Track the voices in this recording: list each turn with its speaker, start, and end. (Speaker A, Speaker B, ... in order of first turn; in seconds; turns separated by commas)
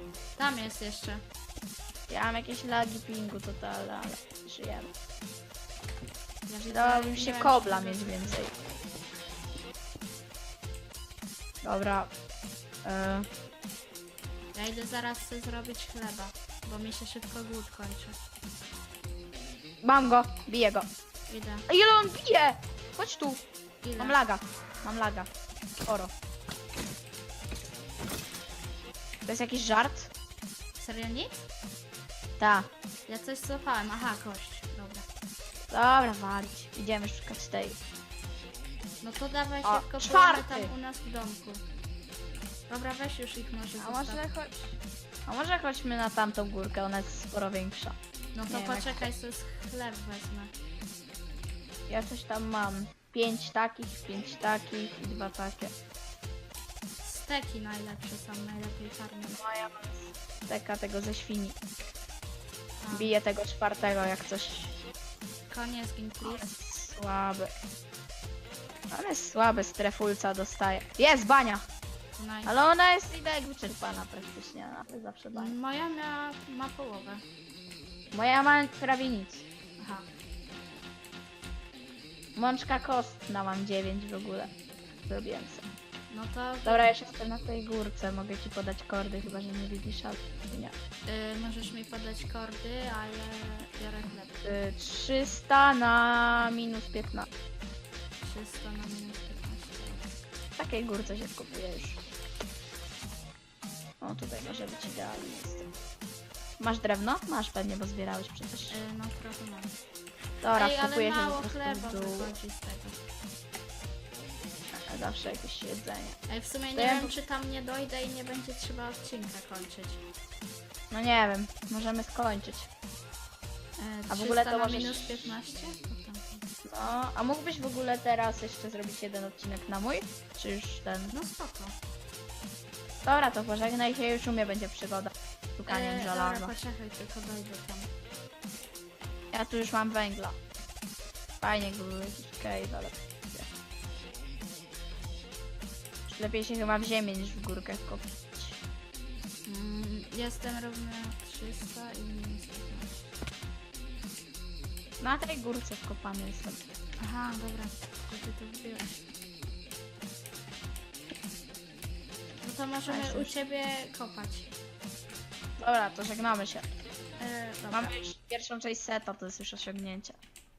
Speaker A: 0.4-1.2, Speaker B: 2.1-4.9, Speaker A: 6.5-8.4, Speaker B: 6.7-8.6, Speaker B: 11.6-12.1, Speaker B: 12.8-13.3, Speaker A: 14.5-18.2, Speaker B: 19.8-20.9, Speaker A: 21.3-21.7, Speaker B: 21.7-23.4, Speaker A: 23.8-24.2, Speaker B: 24.0-25.3, Speaker B: 25.9-26.1, Speaker B: 29.3-30.1, Speaker A: 30.8-31.5, Speaker B: 32.4-32.7, Speaker A: 33.1-35.0, Speaker B: 35.7-37.8, Speaker A: 39.0-41.6, Speaker B: 39.6-40.7, Speaker A: 42.7-44.3, Speaker B: 43.8-48.0, Speaker A: 48.3-50.5, Speaker B: 48.5-49.1, Speaker B: 51.9-55.7, Speaker A: 57.0-59.4, Speaker B: 59.3-61.6, Speaker A: 62.8-63.1, Speaker B: 62.9-64.7, Speaker A: 65.5-66.5, Speaker B: 66.2-67.5, Speaker B: 68.9-71.7, Speaker A: 72.2-72.5, Speaker B: 72.5-75.5, Speaker A: 75.3-77.2, Speaker B: 78.1-79.5, Speaker A: 79.8-80.0, Speaker B: 82.3-84.5, Speaker B: 85.1-85.7, Speaker A: 86.1-86.9, Speaker B: 86.7-90.7, Speaker A: 91.1-94.4, Speaker B: 94.4-97.3, Speaker A: 98.2-100.1, Speaker B: 100.6-102.0, Speaker B: 104.0-105.7, Speaker B: 106.6-108.8, Speaker A: 108.7-109.7, Speaker B: 110.4-112.3, Speaker A: 110.5-113.0, Speaker B: 114.7-116.2, Speaker A: 116.3-120.0, Speaker B: 116.8-117.2, Speaker B: 120.9-122.7, Speaker A: 123.8-126.4, Speaker B: 124.1-125.4, Speaker B: 126.7-131.1, Speaker A: 131.1-131.7, Speaker B: 133.0-136.5, Speaker A: 135.7-137.9, Speaker B: 139.3-140.4, Speaker B: 141.4-143.5, Speaker B: 146.1-148.6, Speaker A: 149.5-153.1, Speaker B: 155.0-156.7, Speaker A: 157.0-159.1, Speaker A: 162.4-164.5, Speaker B: 162.9-163.3, Speaker B: 165.6-166.7, Speaker A: 167.2-167.9, Speaker B: 167.7-170.2